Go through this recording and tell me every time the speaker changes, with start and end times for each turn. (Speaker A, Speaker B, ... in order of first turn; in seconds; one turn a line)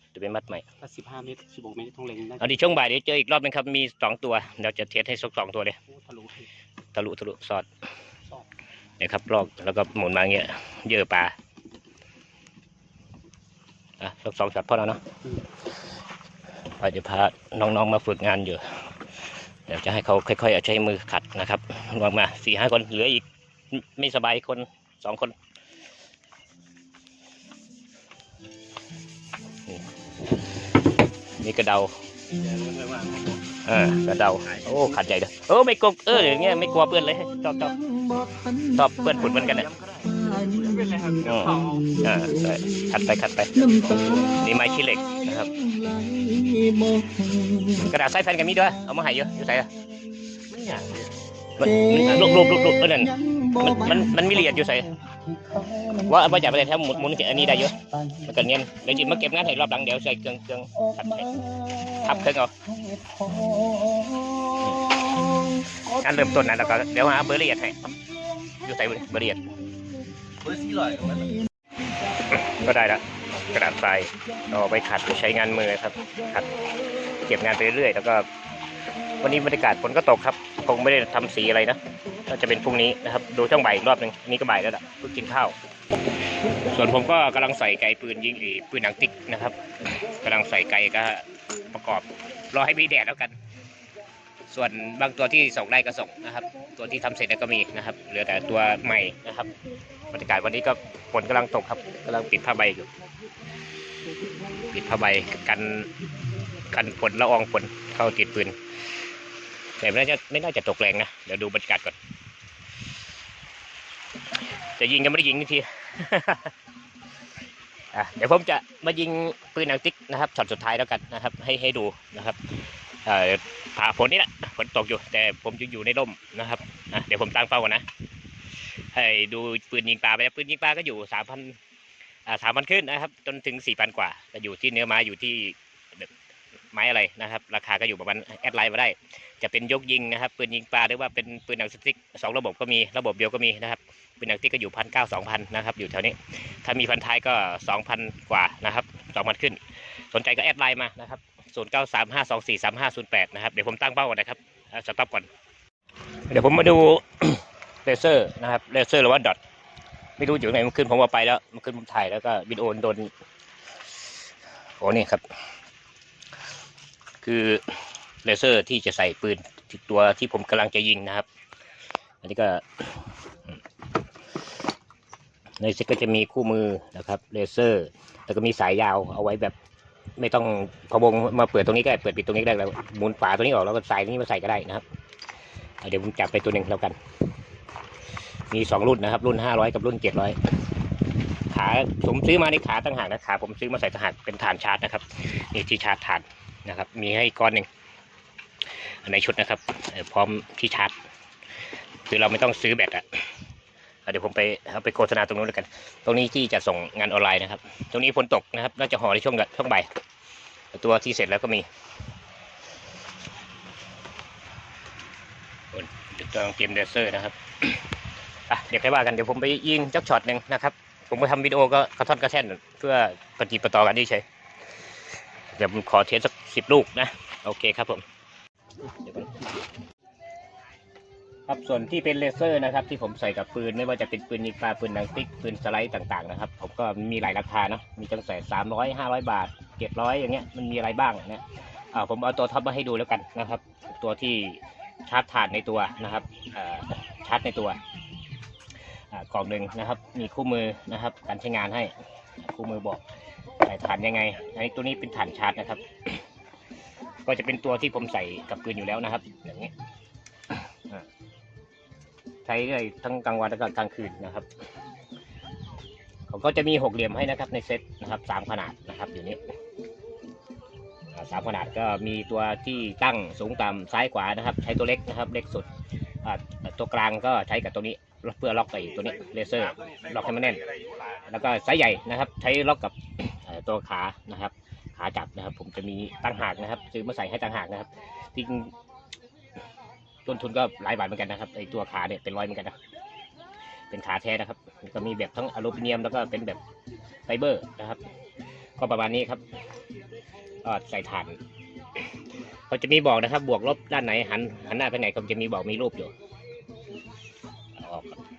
Speaker A: 0.1-0.6
Speaker B: 0.8-2.6
Speaker A: 2.4-5.8
Speaker B: 5.9-6.5
Speaker A: 6.9-7.7
Speaker B: 8.2-8.5
Speaker A: 9.0-11.3
Speaker A: 14.0-15.0
Speaker A: 16.8-19.0
Speaker A: 19.7-25.3
Speaker A: 31.4-32.0
Speaker C: 32.5-32.9
Speaker B: 32.7-33.2
Speaker A: 33.5-37.9
Speaker C: 37.9-38.7
Speaker A: 38.6-39.8
Speaker C: 39.8-41.9
Speaker A: 41.2-45.7
Speaker C: 43.7-44.2
Speaker C: 45.6-47.7
Speaker A: 47.7-49.7
Speaker A: 50.6-50.9
Speaker A: 51.6-55.0
Speaker C: 53.2-53.6
Speaker C: 55.3-56.0
Speaker A: 55.9-62.5
Speaker C: 62.7-64.6
Speaker A: 64.6-65.0
Speaker A: 65.7-67.9
Speaker A: 68.6-69.5
Speaker C: 70.5-71.3
Speaker A: 72.2-76.6
Speaker A: 77.1-78.3
Speaker A: 79.1-85.6
Speaker A: 86.4-93.3
Speaker A: 94.5-99.5
Speaker A: 100.1-102.9
Speaker A: 104.6-106.0
Speaker A: 106.6-108.6
Speaker A: 109.8-112.0
Speaker A: 114.5-116.5
Speaker A: 117.9-127.8
Speaker A: 128.9-131.6
Speaker A: 132.3-136.1
Speaker A: 136.7-149.6
Speaker A: 150.1-155.3
Speaker A: 156.3-159.4
Speaker A: 160.2-163.1
Speaker A: 164.8-165.2
Speaker A: 167.2-171.3
Speaker A: 172.2-173.1
Speaker A: 175.6-179.6
Speaker A: 180.2-184.8
Speaker A: 185.8-187.0
Speaker A: 188.5-190.4
Speaker A: 191.5-197.7
Speaker A: 198.8-200.9
Speaker A: 202.1-203.3
Speaker A: 204.1-209.9
Speaker A: 210.7-211.7
Speaker A: 215.7-217.8
Speaker A: 218.5-224.2
Speaker A: 225.6-228.1
Speaker A: 229.0-229.4
Speaker A: 231.5-247.8
Speaker A: 249.1-253.0
Speaker A: 253.6-256.2
Speaker A: 257.2-259.7
Speaker A: 260.6-261.1
Speaker A: 262.4-264.5
Speaker A: 266.3-269.4
Speaker A: 271.1-275.7
Speaker A: 276.2-288.8
Speaker A: 290.2-292.8
Speaker A: 293.9-296.6
Speaker A: 297.3-298.1
Speaker A: 298.8-299.4
Speaker A: 300.6-301.4
Speaker A: 302.7-306.1
Speaker A: 307.8-308.2